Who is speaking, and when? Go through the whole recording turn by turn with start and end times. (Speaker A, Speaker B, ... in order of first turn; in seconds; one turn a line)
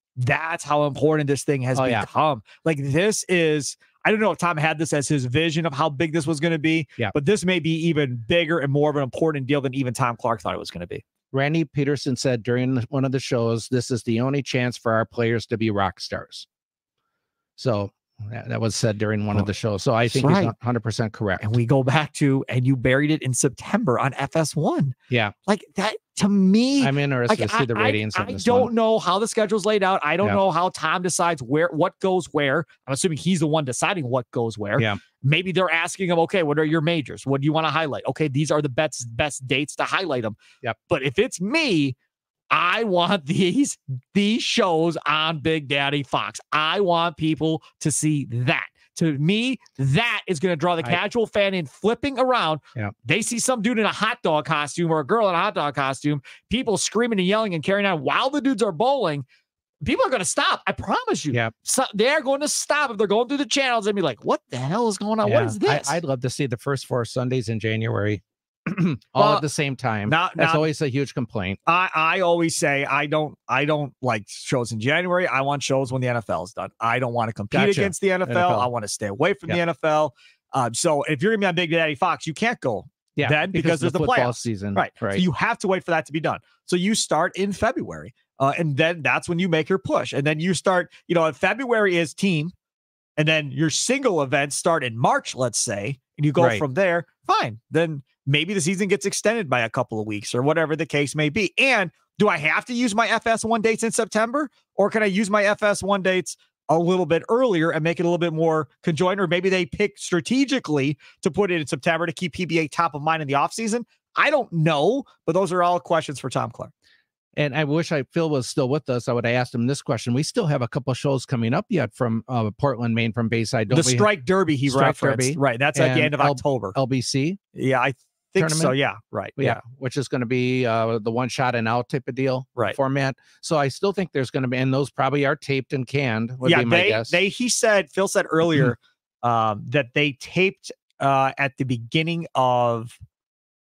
Speaker A: 0.2-11.0
Speaker B: 1.7-2.1
Speaker B: 11.3-16.5
Speaker B: 17.6-21.4
Speaker A: 20.1-20.5
Speaker A: 21.4-24.9
Speaker A: 25.5-40.4
Speaker B: 26.8-28.7
Speaker A: 40.9-41.9
Speaker A: 42.5-59.2
Speaker A: 59.8-66.0
Speaker B: 65.2-71.6
Speaker A: 69.2-69.4
Speaker A: 70.1-70.7
Speaker A: 71.7-92.5
Speaker B: 77.5-78.7
Speaker B: 83.2-85.2
Speaker A: 93.2-116.7
Speaker B: 96.4-96.6
Speaker B: 117.3-124.1
Speaker A: 123.7-126.7
Speaker B: 124.7-127.4
Speaker A: 127.5-129.6
Speaker B: 128.4-128.7
Speaker B: 129.4-137.2
Speaker A: 136.4-143.0